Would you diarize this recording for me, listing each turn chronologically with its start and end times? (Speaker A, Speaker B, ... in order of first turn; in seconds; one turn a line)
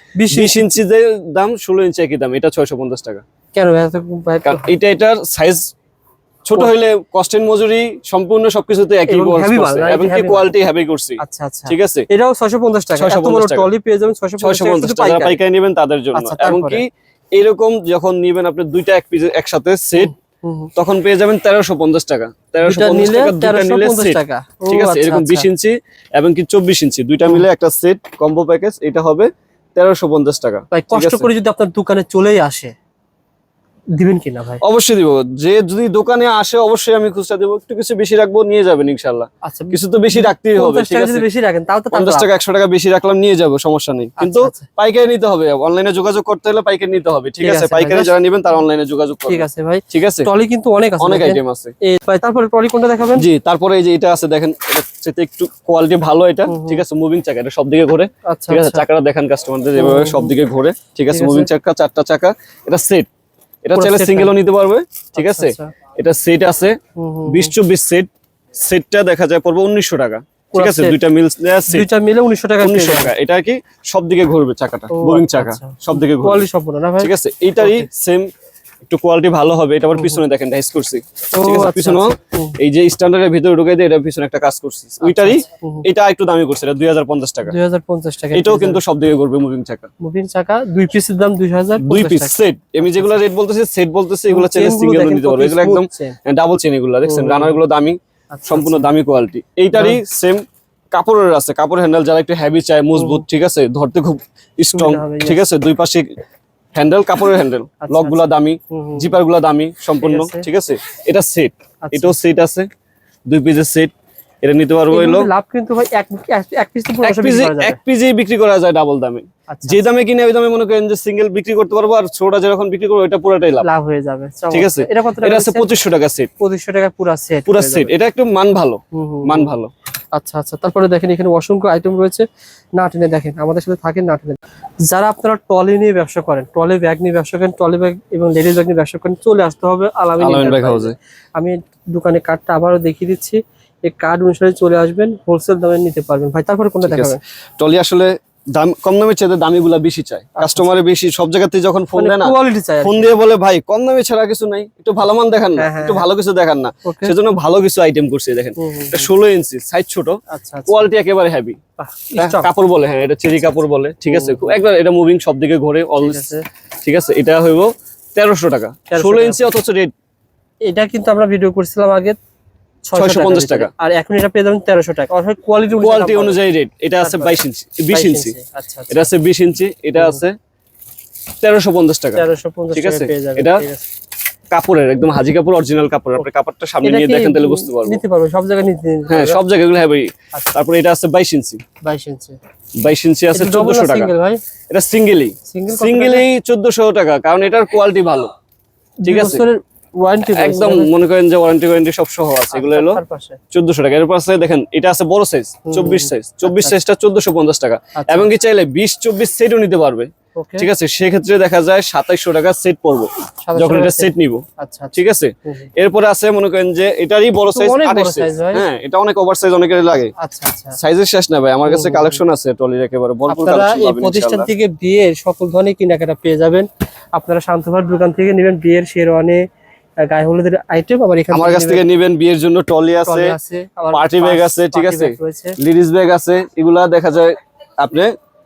Speaker A: 0.2-0.7
Speaker B: 0.3-3.2
Speaker A: 3.5-4.7
Speaker B: 4.4-5.7
Speaker B: 6.5-12.1
Speaker A: 9.1-10.5
Speaker A: 11.2-15.4
Speaker B: 12.9-13.7
Speaker B: 14.4-20.1
Speaker A: 16.1-16.8
Speaker A: 20.0-20.7
Speaker B: 20.8-31.3
Speaker A: 22.6-25.5
Speaker A: 30.7-32.7
Speaker A: 34.0-34.6
Speaker B: 34.6-41.2
Speaker A: 39.4-42.3
Speaker B: 41.9-50.3
Speaker A: 44.2-44.7
Speaker A: 47.4-48.1
Speaker A: 49.3-53.2
Speaker B: 51.0-51.7
Speaker B: 53.1-63.1
Speaker A: 56.5-56.8
Speaker A: 58.3-58.8
Speaker A: 59.8-60.3
Speaker A: 61.1-61.5
Speaker B: 63.6-71.9
Speaker A: 63.7-64.3
Speaker A: 65.2-65.7
Speaker A: 67.0-67.5
Speaker A: 70.5-71.0
Speaker A: 71.7-73.1
Speaker B: 72.6-76.5
Speaker A: 74.9-77.9
Speaker B: 77.0-78.3
Speaker B: 78.8-87.5
Speaker A: 79.9-80.2
Speaker A: 81.3-82.5
Speaker A: 85.0-85.8
Speaker A: 87.5-88.8
Speaker B: 88.3-89.9
Speaker A: 90.0-93.2
Speaker B: 91.8-106.1
Speaker A: 94.3-96.2
Speaker A: 97.0-97.6
Speaker A: 98.3-98.9
Speaker A: 99.7-100.0
Speaker A: 103.0-103.2
Speaker A: 104.7-105.4
Speaker B: 106.7-112.7
Speaker A: 107.8-109.2
Speaker A: 110.0-110.5
Speaker A: 111.8-112.2
Speaker B: 113.3-115.3
Speaker A: 114.9-117.8
Speaker B: 117.0-123.7
Speaker A: 119.5-119.8
Speaker A: 123.6-125.7
Speaker B: 124.5-126.3
Speaker A: 126.4-127.9
Speaker B: 127.5-129.7
Speaker A: 128.9-129.6
Speaker A: 130.1-132.2
Speaker A: 132.8-147.2
Speaker B: 140.2-140.9
Speaker B: 146.8-161.6
Speaker A: 150.4-150.7
Speaker A: 151.9-153.1
Speaker A: 155.6-156.0
Speaker A: 156.8-157.1
Speaker A: 158.6-159.1
Speaker A: 160.3-160.9
Speaker A: 161.8-162.5
Speaker B: 162.1-166.3
Speaker A: 164.1-164.6
Speaker A: 166.0-166.4
Speaker B: 166.8-169.9
Speaker A: 168.9-169.4
Speaker A: 170.7-172.2
Speaker A: 172.8-176.4
Speaker B: 172.9-173.7
Speaker B: 175.8-178.3
Speaker A: 177.0-177.4
Speaker A: 177.9-179.0
Speaker B: 178.9-180.3
Speaker A: 180.0-180.2
Speaker B: 181.4-183.6
Speaker A: 182.1-183.8
Speaker B: 184.5-188.0
Speaker A: 186.8-189.4
Speaker B: 189.1-191.6
Speaker A: 191.8-192.3
Speaker B: 192.8-194.1
Speaker A: 193.3-194.4
Speaker B: 194.7-198.3
Speaker A: 195.5-196.2
Speaker A: 199.0-200.9
Speaker B: 199.0-199.4
Speaker B: 200.3-220.1
Speaker A: 202.5-203.4
Speaker A: 205.7-206.8
Speaker A: 208.0-208.3
Speaker A: 210.3-210.7
Speaker A: 213.4-215.7
Speaker A: 217.4-218.6
Speaker A: 220.2-220.8
Speaker B: 220.8-224.5
Speaker A: 221.7-222.2
Speaker A: 223.3-229.4
Speaker A: 230.0-231.8
Speaker B: 231.3-233.3
Speaker A: 233.1-235.6
Speaker B: 233.9-238.1